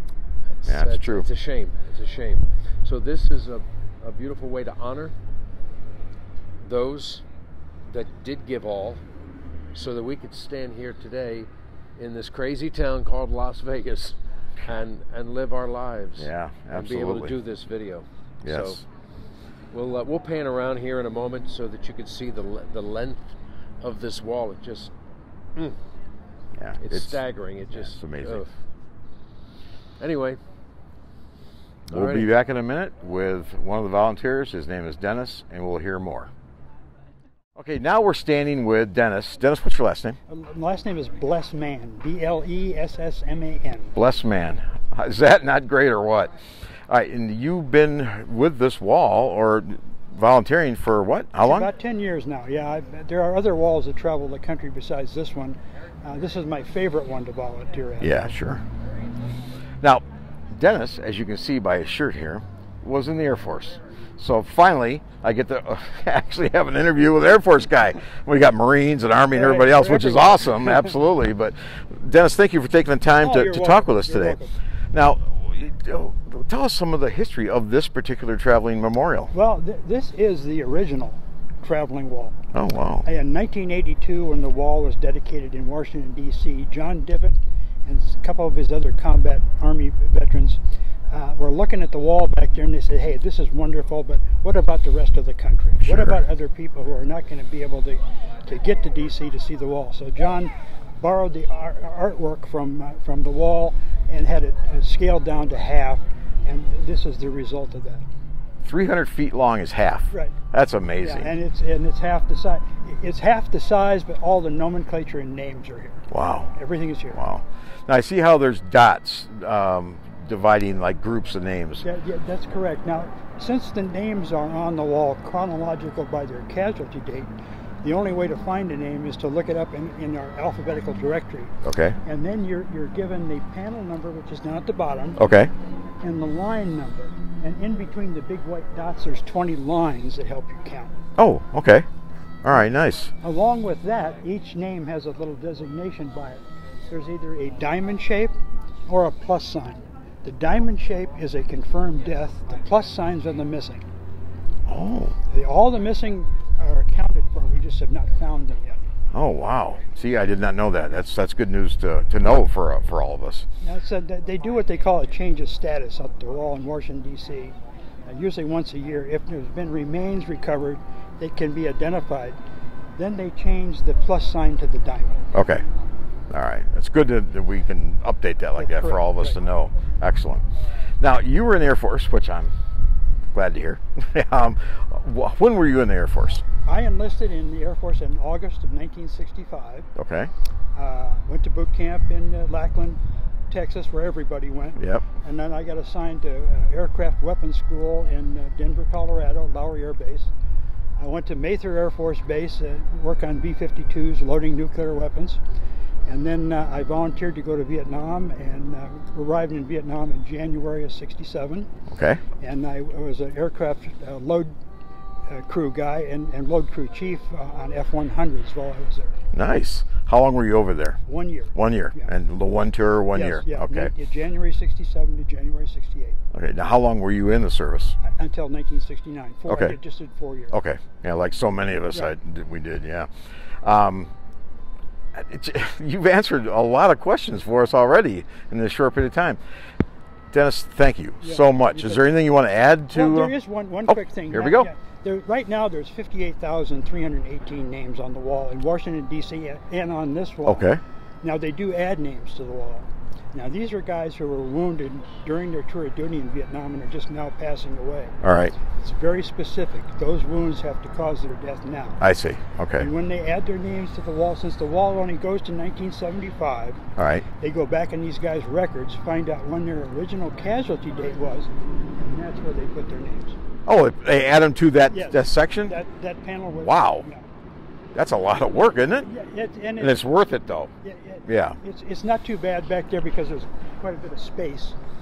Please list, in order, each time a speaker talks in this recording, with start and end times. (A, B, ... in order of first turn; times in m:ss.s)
0:00.6-0:05.2 A
0:00.7-0:01.3 B
0:06.6-0:07.2 A
0:07.9-0:09.0 A
0:09.7-0:18.8 A
0:16.2-0:17.4 B
0:18.4-0:18.8 B
0:19.7-0:24.9 A
0:26.6-0:28.5 B
0:26.8-0:28.6 A
0:30.0-0:30.4 A
0:31.9-0:36.3 B
0:31.9-0:32.3 A
0:37.6-0:40.2 B
0:40.3-0:43.9 C
0:44.0-0:46.3 B
0:46.9-0:51.7 B
0:51.4-0:58.4 C
0:58.0-0:58.6 B
0:59.8-1:14.4 B
1:09.3-1:10.9 C
1:13.2-1:14.5 C
1:14.9-1:19.3 B
1:19.3-1:22.4 C
1:22.5-1:23.1 B
1:23.0-1:48.0 C
1:35.8-1:36.2 B
1:48.6-1:51.3 B
1:51.0-1:57.2 C
1:56.1-1:56.5 B
1:57.1-2:01.8 B
2:01.8-2:07.3 C
2:07.8-2:11.5 C
2:11.6-2:12.0 B
2:12.0-2:15.2 C
2:15.2-2:15.5 B
2:16.0-2:20.9 C
2:21.2-2:21.9 B
2:22.4-2:23.1 B
2:23.2-2:28.4 C
2:28.9-2:33.8 C
2:34.7-2:35.2 B
2:35.3-2:38.8 C
2:39.1-2:43.5 B
2:43.6-2:47.6 C
2:48.1-2:52.4 C
2:53.0-2:55.3 C
2:55.3-2:55.6 B
2:56.3-3:00.4 B
2:58.6-2:59.3 C
3:01.0-3:02.5 B
3:03.3-3:06.4 B
3:06.6-3:09.9 C
3:10.0-3:10.3 B
3:10.7-3:20.3 C
3:14.8-3:15.1 B
3:21.0-3:25.4 C
3:26.1-3:31.7 C
3:31.9-3:32.2 B
3:32.4-3:34.5 C
3:35.3-3:39.2 C
3:39.3-3:41.0 B
3:41.1-3:42.1 C
3:41.6-3:43.9 B
3:43.1-3:46.2 C
3:46.3-3:48.0 B
3:48.0-3:50.5 C
3:49.5-3:49.8 B
3:50.5-3:53.1 B
3:53.6-3:54.1 B
3:55.2-3:59.4 B
4:00.3-4:03.3 B
4:01.2-4:02.1 C
4:02.9-4:10.7 C
4:03.9-4:04.7 B
4:10.5-4:10.8 B
4:11.2-4:22.0 C
4:18.2-4:18.6 B
4:22.0-4:22.9 B
4:22.8-4:26.8 C
4:27.0-4:27.2 B
4:27.4-4:33.4 C
4:33.7-4:35.8 B
4:34.9-4:37.3 C
4:36.6-4:37.1 B
4:37.9-4:39.1 B
4:39.0-4:40.0 C
4:39.8-4:40.7 B
4:40.8-4:44.8 C
4:41.3-4:41.6 B